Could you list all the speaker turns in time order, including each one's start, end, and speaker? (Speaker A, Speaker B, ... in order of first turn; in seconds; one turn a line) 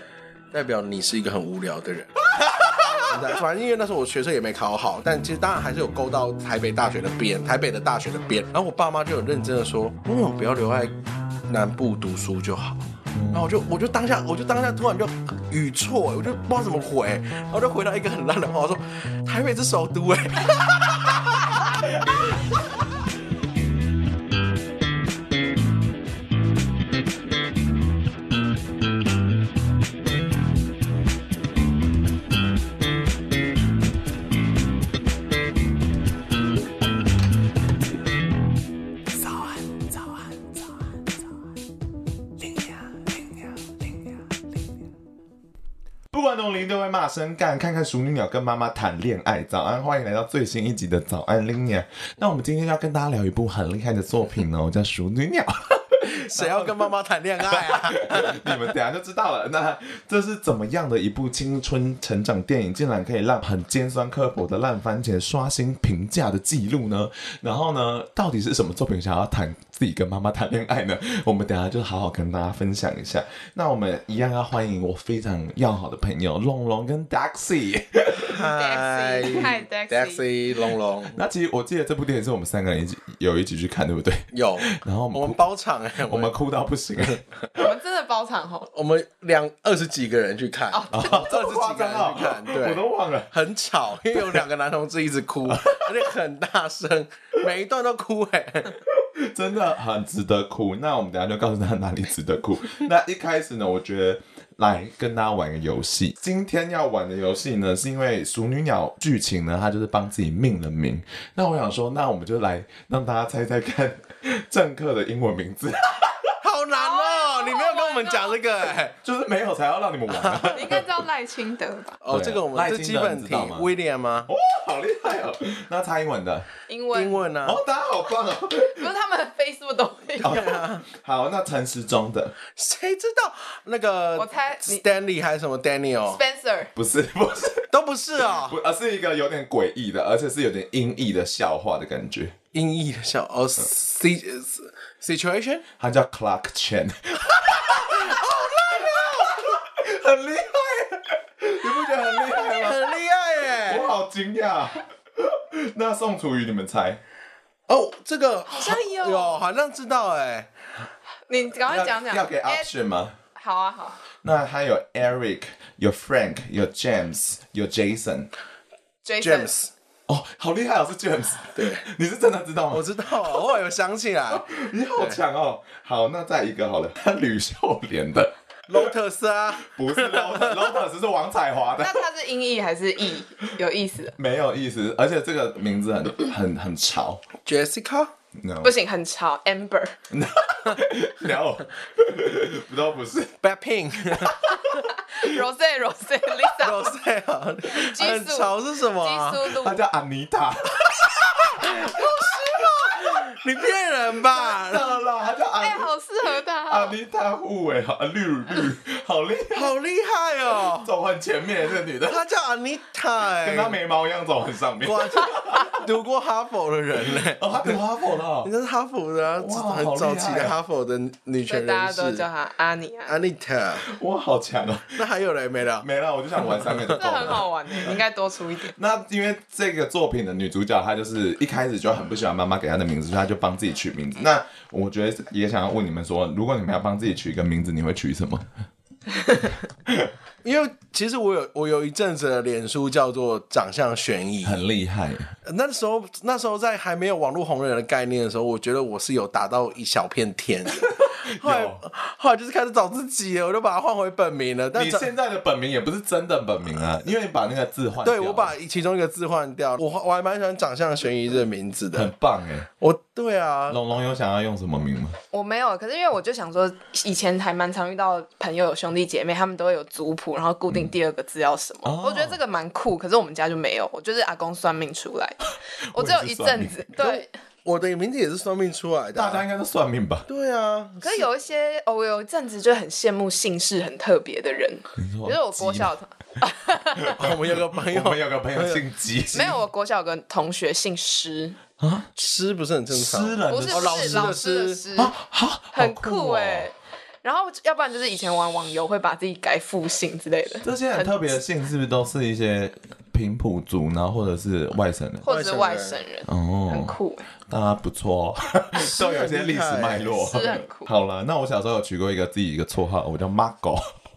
Speaker A: 0.5-2.2
Speaker B: 2.4-3.0
Speaker A: 3.0-20.6
Speaker B: 13.1-13.5
Speaker B: 46.1-56.8
Speaker A: 56.0-58.6
Speaker B: 57.4-78.3
Speaker A: 78.2-81.2
Speaker C: 78.4-80.2
Speaker B: 81.1-85.4
Speaker A: 84.3-86.3
Speaker B: 86.0-87.2
Speaker C: 87.5-88.7
Speaker A: 88.7-98.8
Speaker C: 90.7-91.3
Speaker B: 90.9-93.3
Speaker B: 94.1-94.4
Speaker B: 95.4-96.1
Speaker B: 98.9-116.4
Speaker A: 116.4-118.9
Speaker C: 116.7-118.4
Speaker B: 119.0-120.9
Speaker A: 120.1-120.6
Speaker C: 120.5-122.0
Speaker A: 122.0-124.3
Speaker B: 122.1-123.7
Speaker B: 124.3-126.5
Speaker C: 126.7-127.2
Speaker A: 126.9-127.6
Speaker B: 127.4-128.9
Speaker C: 128.6-130.4
Speaker B: 130.2-132.3
Speaker A: 130.2-130.8
Speaker A: 132.5-136.2
Speaker C: 134.2-134.8
Speaker C: 136.1-136.7
Speaker B: 136.7-137.7
Speaker A: 137.7-138.6
Speaker B: 138.2-142.3
Speaker A: 142.5-145.6
Speaker B: 145.8-152.8
Speaker A: 147.9-149.3
Speaker A: 152.4-153.9
Speaker B: 153.7-157.0
Speaker A: 157.7-160.5
Speaker C: 158.5-159.4
Speaker C: 161.3-162.7
Speaker B: 161.7-163.1
Speaker C: 163.3-164.0
Speaker B: 164.2-168.3
Speaker C: 169.0-169.5
Speaker A: 169.2-169.7
Speaker B: 170.1-173.4
Speaker A: 171.5-171.8
Speaker A: 172.7-175.2
Speaker B: 174.3-178.9
Speaker A: 178.7-180.7
Speaker B: 179.6-182.0
Speaker C: 181.8-184.2
Speaker B: 184.2-187.2
Speaker A: 187.4-188.1
Speaker B: 188.4-188.7
Speaker C: 188.6-189.9
Speaker B: 190.1-193.4
Speaker A: 193.4-194.4
Speaker B: 194.1-194.8
Speaker C: 194.5-196.9
Speaker A: 196.6-199.4
Speaker C: 197.7-199.8
Speaker B: 199.4-203.4
Speaker A: 201.5-204.9
Speaker B: 204.2-205.9
Speaker C: 205.6-206.9
Speaker B: 206.7-209.7
Speaker A: 209.5-210.9
Speaker B: 210.6-212.2
Speaker A: 212.1-213.8
Speaker B: 213.4-215.8
Speaker A: 214.8-217.8
Speaker B: 217.1-218.5
Speaker A: 218.4-222.2
Speaker B: 219.3-220.6
Speaker C: 221.5-223.2
Speaker A: 223.1-223.8
Speaker B: 223.8-225.0
Speaker A: 224.9-225.9
Speaker B: 225.8-228.0
Speaker A: 226.4-227.3
Speaker C: 226.9-228.7
Speaker B: 228.7-238.5
Speaker B: 239.8-240.1
Speaker A: 240.4-244.6
Speaker B: 244.4-245.3
Speaker A: 245.4-255.1
Speaker B: 250.8-251.8
Speaker B: 254.7-258.5
Speaker A: 258.0-262.1
Speaker B: 261.9-262.7
Speaker A: 262.8-263.8
Speaker B: 263.7-265.1
Speaker C: 265.3-277.3
Speaker B: 271.8-272.4
Speaker B: 275.9-276.9
Speaker A: 277.0-279.4
Speaker B: 279.1-280.2
Speaker A: 280.3-281.3
Speaker C: 281.0-287.1
Speaker B: 285.0-285.9
Speaker B: 287.0-289.6
Speaker A: 287.1-288.8
Speaker C: 289.3-291.6
Speaker B: 291.8-292.1
Speaker A: 292.1-294.8
Speaker B: 292.9-294.3
Speaker C: 293.5-295.1
Speaker B: 294.9-296.7
Speaker C: 295.7-301.4
Speaker B: 300.6-305.2
Speaker C: 305.2-307.2
Speaker A: 305.3-306.0
Speaker B: 306.2-306.9
Speaker B: 307.5-313.9
Speaker A: 308.7-310.1
Speaker C: 310.1-310.9